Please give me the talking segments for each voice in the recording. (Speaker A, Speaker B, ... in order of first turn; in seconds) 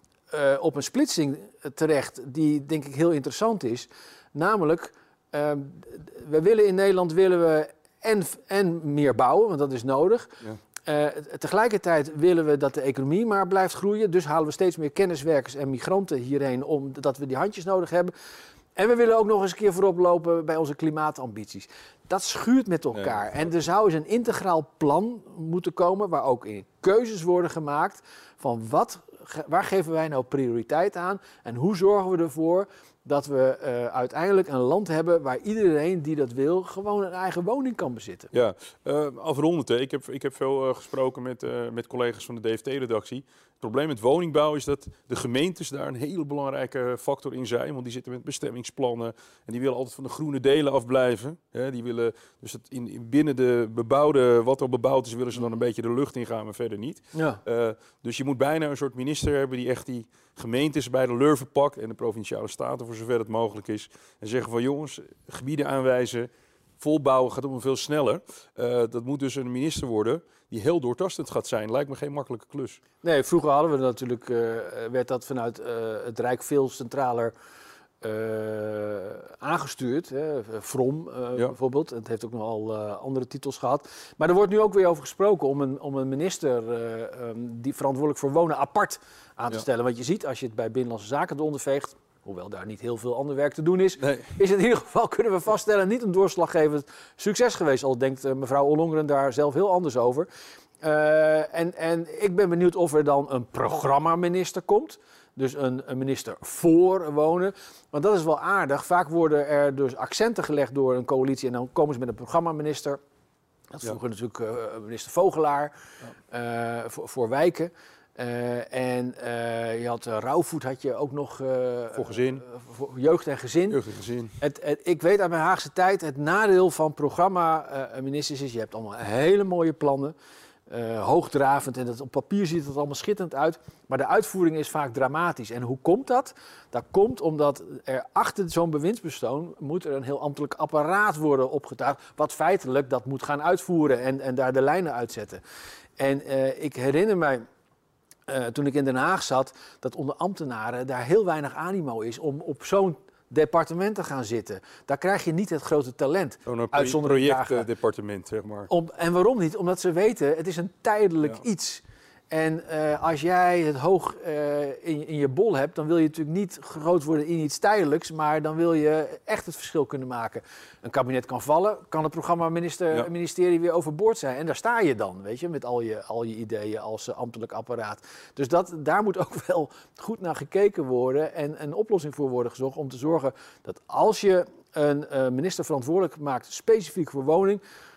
Speaker A: 0.3-18.1, 18.8-38.3, 57.1-57.4, 73.0-77.3, 78.0-100.3, 100.8-113.0, 113.7-115.7, 116.3-123.8, 124.4-130.2, 130.7-145.4, 146.0-147.4, 148.3-157.7, 158.7-187.6
Speaker B: 22.9-23.3, 38.3-72.8, 94.0-94.3, 121.9-122.4, 123.7-124.4, 156.5-158.7